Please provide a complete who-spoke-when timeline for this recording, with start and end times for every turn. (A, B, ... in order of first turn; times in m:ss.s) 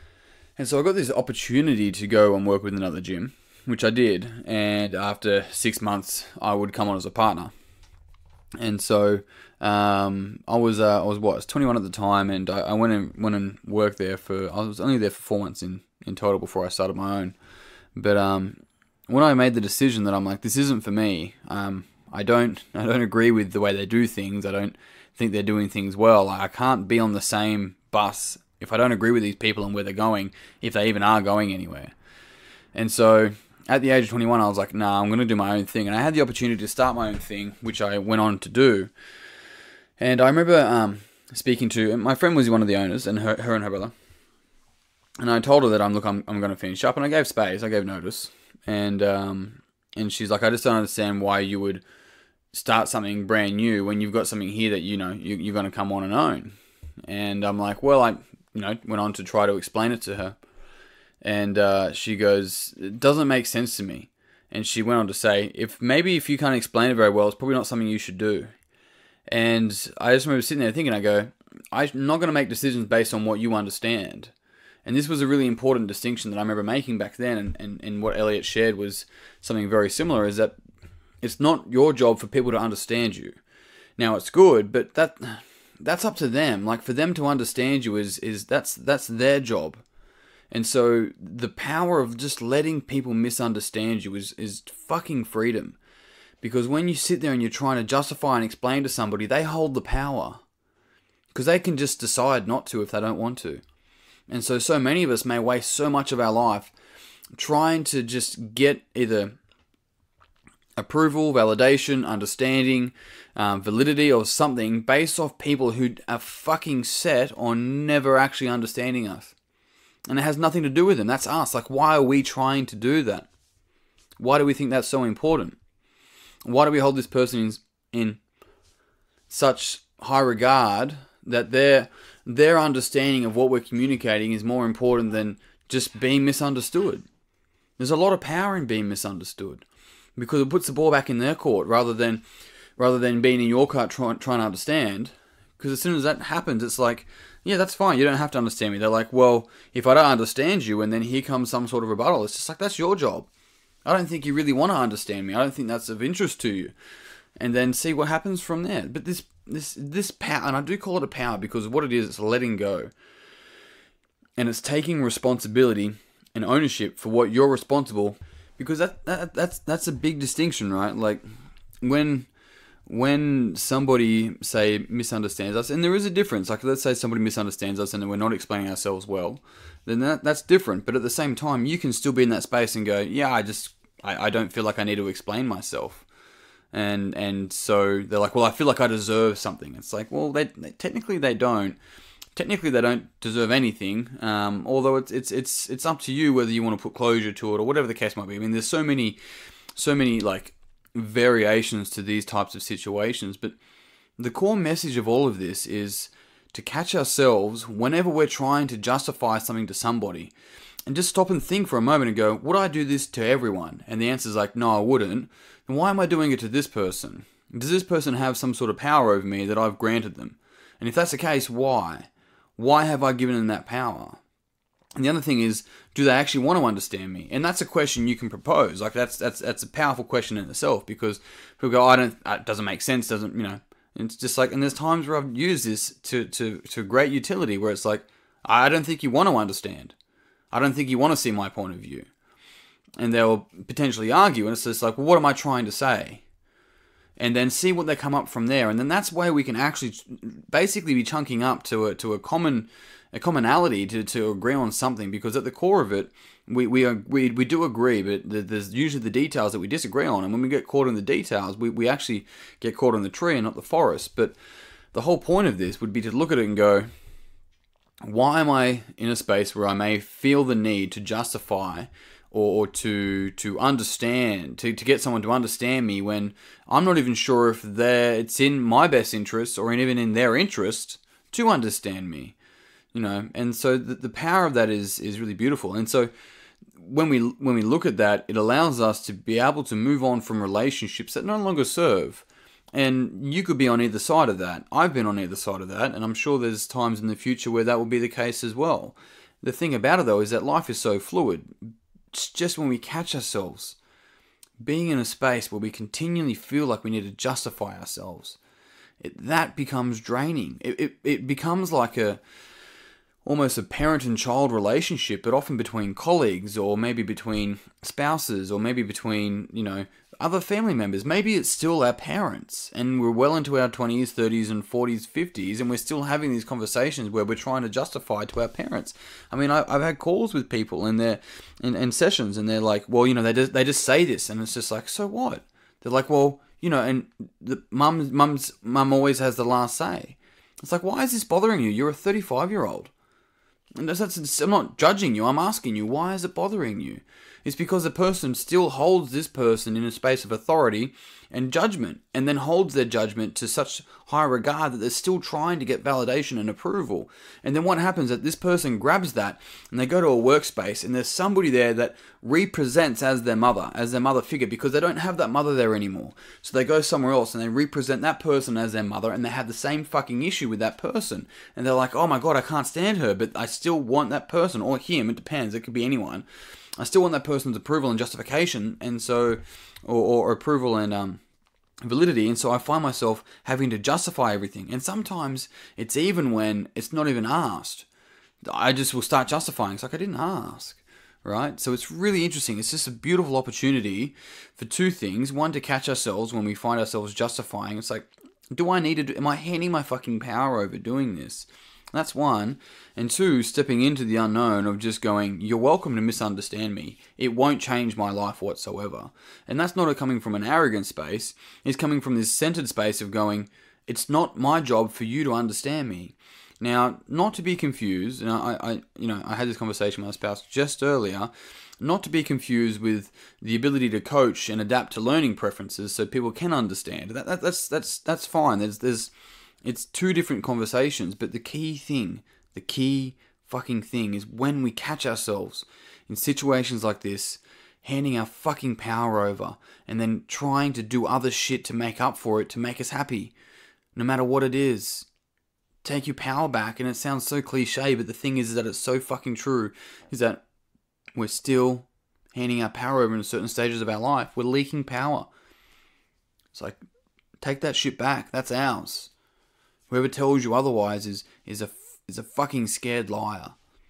0:00.6-0:07.5 A
0:08.6-0:17.4 A
0:18.0-0:31.9 A
0:32.8-0:38.9 A
0:40.0-0:43.9 A
0:45.2-0:51.8 A
0:52.5-0:56.6 A
0:57.1-1:00.4 A
1:01.2-1:08.5 A
1:09.3-1:14.3 A
1:14.8-1:20.6 A
1:21.2-1:23.4 A
1:24.0-1:29.8 A
1:30.5-1:35.8 A
1:36.4-1:40.4 A
1:41.3-1:43.6 A
1:44.3-1:46.7 A
1:47.3-1:49.4 A
1:50.8-1:59.3 A
2:00.1-2:03.3 A
2:04.2-2:05.6 A
2:06.4-2:08.2 A
2:09.3-2:17.0 A
2:17.8-2:19.7 A
2:20.2-2:22.2 A
2:22.8-2:33.3 A
2:33.8-2:36.7 A
2:37.4-2:42.9 A
2:44.4-2:51.2 A
2:51.8-2:52.3 A
2:52.8-3:06.1 A
3:06.7-3:11.8 A
3:12.3-3:19.2 A
3:19.8-3:23.6 A
3:24.2-3:30.3 A
3:30.9-3:44.2 A
3:45.0-4:00.0 A
4:00.5-4:02.1 A
4:03.0-4:06.2 A
4:07.2-4:24.4 A
4:24.9-4:26.9 A
4:28.0-4:42.4 A
4:42.9-4:46.1 A
4:46.8-5:03.8 A
5:04.6-5:08.4 A
5:09.0-5:12.2 A
5:13.2-5:42.9 A
5:43.8-6:16.2 A
6:16.8-6:21.2 A
6:21.8-6:27.9 A
6:28.5-7:09.1 A
7:09.6-7:23.3 A
7:24.0-7:25.1 A
7:25.8-7:30.4 A
7:31.2-7:35.3 A
7:36.5-7:36.8 A
7:37.4-7:39.1 A
7:39.9-7:43.6 A